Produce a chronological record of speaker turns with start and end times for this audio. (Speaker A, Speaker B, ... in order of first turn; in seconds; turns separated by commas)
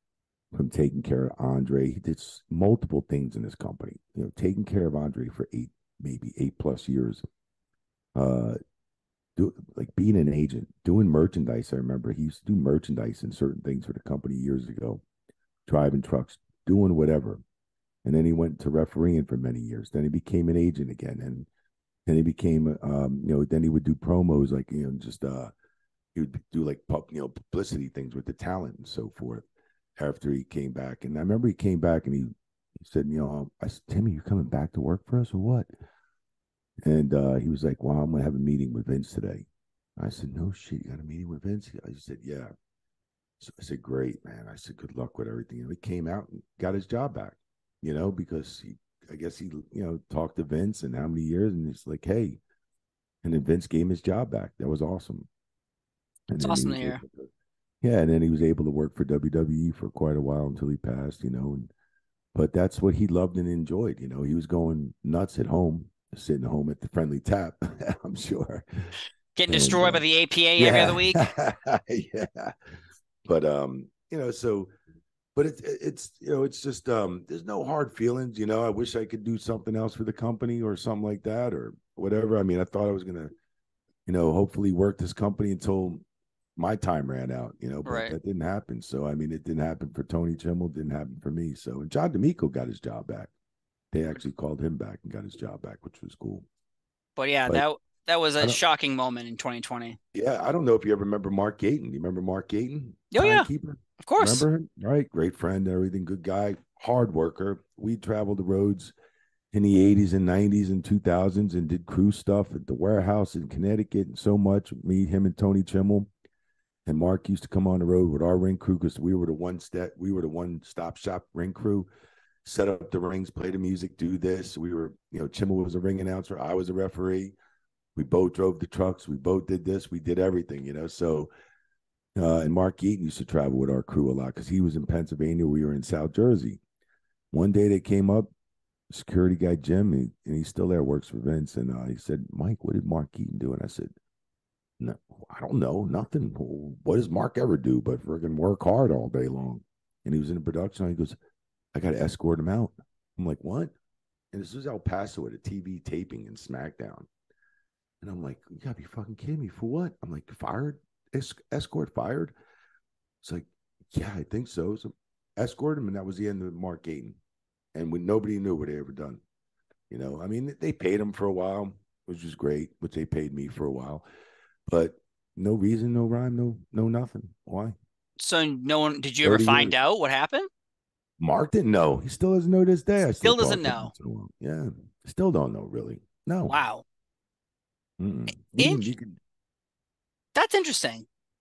Speaker A: 0.5-7.2, Speaker A: 8.2-8.6, Speaker A: 9.4-15.0, Speaker A: 15.7-17.4, Speaker A: 18.1-21.5, Speaker A: 22.1-25.5, Speaker A: 26.1-29.5, Speaker A: 30.0-35.7, Speaker A: 36.8-42.5, Speaker A: 43.4-52.4, Speaker A: 53.2-55.3, Speaker A: 56.3-57.3, Speaker B: 56.4-57.0, Speaker A: 57.8-61.7, Speaker A: 62.4-68.7, Speaker B: 69.4-71.2, Speaker A: 69.5-70.0, Speaker A: 70.6-72.5, Speaker A: 73.2-74.7, Speaker A: 75.4-83.3, Speaker A: 84.1-86.0, Speaker A: 86.6-93.3, Speaker B: 87.8-88.2, Speaker A: 93.9-96.5, Speaker B: 97.2-100.0, Speaker A: 100.1-108.9, Speaker B: 103.1-103.5, Speaker B: 104.0-104.5, Speaker A: 109.5-116.1, Speaker A: 116.9-121.9, Speaker A: 122.5-127.4, Speaker A: 128.0-131.3, Speaker A: 132.2-136.6, Speaker A: 137.3-138.3, Speaker A: 138.9-143.9, Speaker A: 144.8-151.2, Speaker A: 151.7-153.7, Speaker A: 154.3-157.1, Speaker A: 158.0-162.3, Speaker A: 163.2-167.2, Speaker A: 167.7-169.2, Speaker A: 169.9-174.1, Speaker A: 174.7-177.8, Speaker B: 178.2-180.5, Speaker A: 179.2-179.8, Speaker A: 181.2-186.6, Speaker B: 183.2-183.9, Speaker B: 186.5-186.8, Speaker A: 188.0-189.2, Speaker B: 188.6-188.9, Speaker B: 190.3-191.1